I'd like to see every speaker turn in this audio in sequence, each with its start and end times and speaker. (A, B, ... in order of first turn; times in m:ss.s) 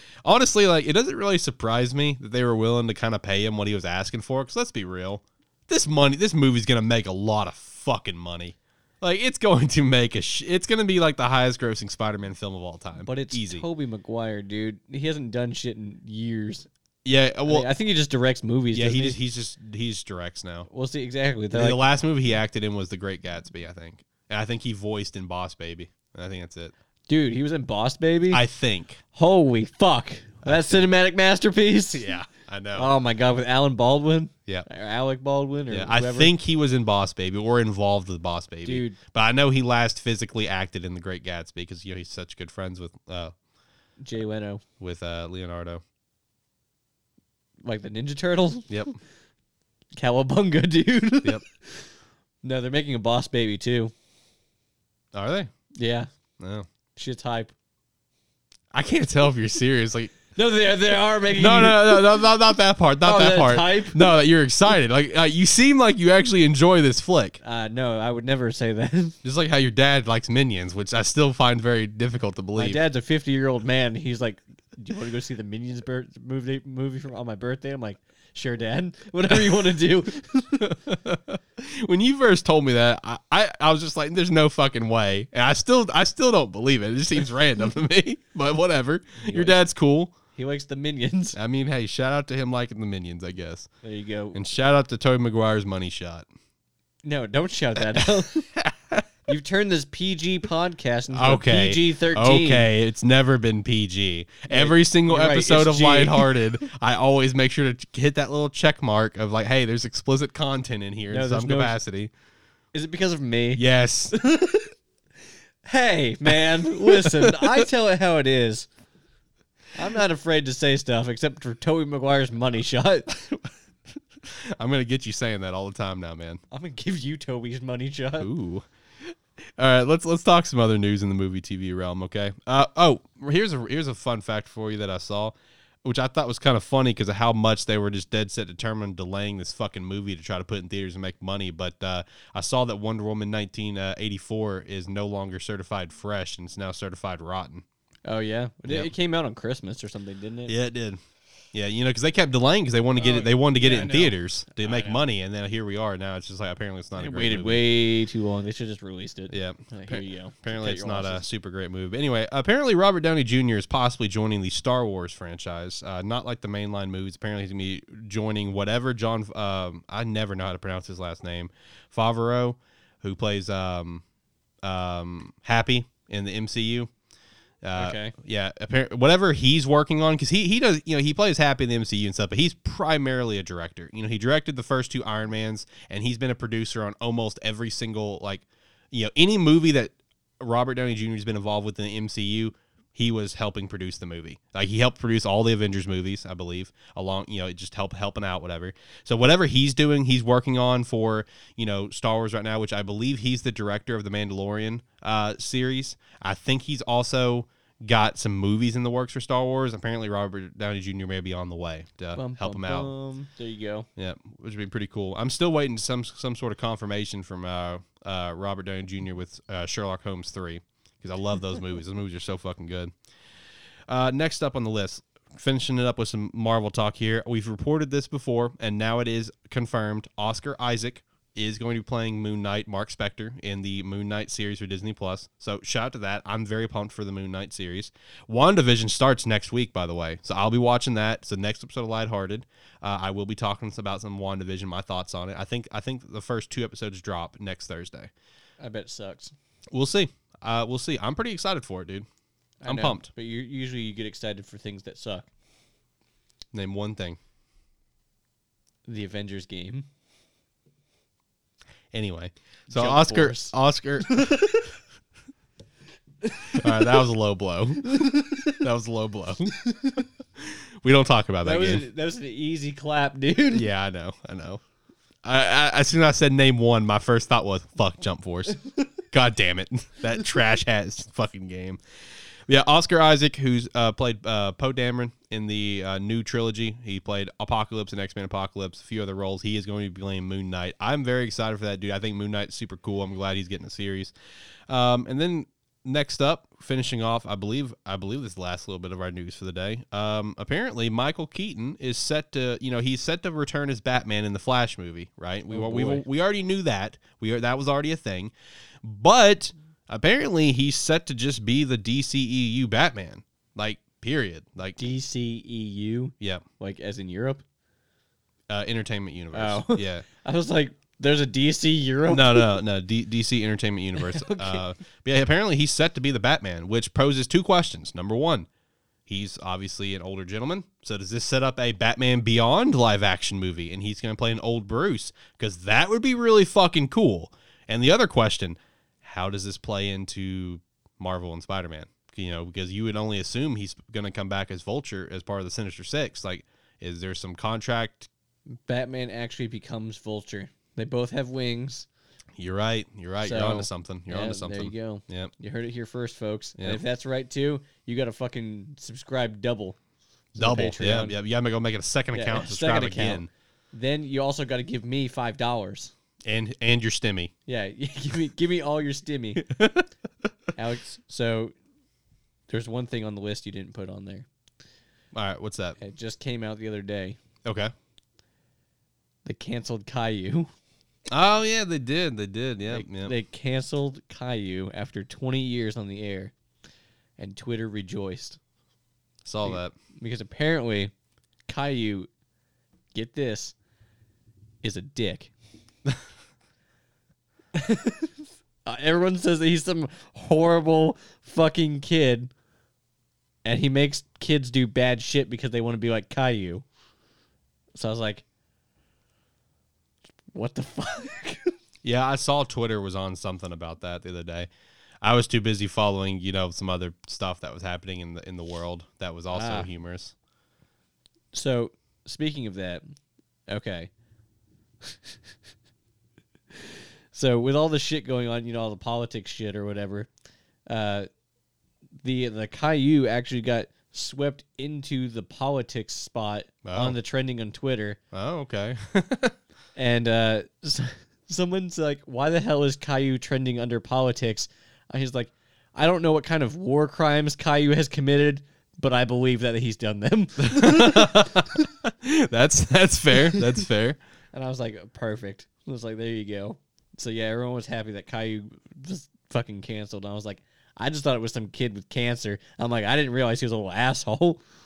0:00.2-0:13.7 A
0:13.0-0:16.7 B
0:17.0-0:17.7 A
0:17.4-0:19.2 B
0:18.7-0:20.7 A
0:20.7-0:21.8 B
0:21.5-0:26.7 A
0:27.1-0:28.4 B
0:28.3-0:29.0 A
0:29.1-0:32.1 B
0:30.4-0:30.8 A
0:31.9-0:33.0 A
0:32.7-0:36.3 B
0:35.7-0:43.4 A
0:38.6-0:39.0 B
0:44.0-0:44.6 B
0:44.8-0:45.8 A
0:47.6-0:48.7 B
0:48.7-0:49.0 A
0:50.0-0:51.9 B
0:52.4-0:53.9 B
0:55.1-0:55.5 A
0:55.8-0:56.1 B
0:56.4-0:56.7 A
0:57.0-0:57.5 B
0:58.7-1:00.2 A
1:00.4-1:02.2 B
1:01.3-1:07.4 A
1:03.0-1:04.1 B
1:07.4-1:09.2 B
1:09.2-1:12.8 A
1:12.6-1:20.8 B
1:20.6-1:30.1 A
1:29.2-1:29.6 B
1:30.4-1:31.4 B
1:31.3-1:33.7 A
1:33.8-1:34.4 B
1:34.3-1:36.3 A
1:37.0-1:38.5 B
1:38.6-1:39.0 A
1:39.3-1:42.7 B
1:41.1-1:52.1 A
1:44.5-1:46.4 B
1:51.1-1:51.8 B
1:52.7-1:54.6 B
1:53.6-1:54.2 A
1:55.6-1:58.7 B
1:56.3-1:57.7 A
1:59.8-2:03.3 B
2:04.3-2:06.4 A
2:06.5-2:08.3 B
2:08.2-2:27.6 A
2:28.0-2:30.6 B
2:30.5-2:31.0 A
2:31.5-2:37.7 A
2:33.0-2:35.0 B
2:37.0-2:41.2 B
2:39.3-2:54.0 A
2:54.6-2:56.9 A
2:57.6-3:32.9 A
2:57.8-2:58.1 B
3:32.1-3:33.9 B
3:34.0-3:42.9 A
3:43.9-4:08.1 A
4:08.6-4:09.3 B
4:09.7-4:12.1 A
4:12.6-4:15.3 B
4:12.6-4:13.1 A
4:16.5-4:17.2 A
4:18.9-4:19.9 B
4:21.9-4:24.7 A
4:22.7-4:24.5 B
4:26.2-4:27.0 B
4:26.5-4:29.6 A
4:27.9-4:28.5 B
4:30.4-4:31.9 A
4:31.4-4:33.7 B
4:33.5-4:34.6 A
4:35.2-4:41.8 A
4:42.5-4:54.1 A
4:54.7-5:08.3 A
5:05.5-5:06.0 B
5:08.8-5:14.8 A
5:14.8-5:17.4 B
5:16.2-5:16.4 A
5:18.5-5:20.0 A
5:19.3-5:22.6 B
5:22.1-5:28.5 A
5:24.0-5:24.6 B
5:29.1-5:48.1 A
5:48.6-5:51.9 B
5:52.4-5:55.3 A
5:53.2-5:59.8 B
5:56.6-5:56.8 A
6:00.4-6:03.3 A
6:00.4-6:01.2 B
6:02.1-6:05.9 B
6:06.3-6:07.3 A
6:07.5-6:09.4 B
6:09.4-6:09.9 A
6:10.6-6:11.6 B
6:12.5-6:14.3 B
6:15.1-6:15.8 A
6:15.8-6:17.2 B
6:17.4-6:17.7 A
6:19.2-6:20.5 B
6:21.1-6:23.1 A
6:22.7-6:26.3 B
6:27.2-6:28.4 B
6:29.2-6:29.7 A
6:29.4-6:30.9 B
6:31.5-6:32.1 B
6:32.9-6:33.6 B
6:34.6-6:35.3 B
6:37.5-6:42.3 B
6:43.4-6:46.6 B
6:47.7-6:48.2 B
6:50.3-6:51.6 B
6:51.8-6:54.5 A
6:55.0-7:00.1 A
6:59.3-6:59.7 B
7:01.3-7:02.8 B
7:03.5-7:03.9 B
7:04.8-7:05.2 B
7:06.5-7:10.1 B
7:10.7-7:11.1 B
7:12.0-7:18.0 B
7:16.6-7:17.0 A
7:18.1-7:19.4 A
7:19.7-7:31.7 B
7:30.4-7:34.0 A
7:33.1-7:33.6 B
7:34.3-7:44.4 B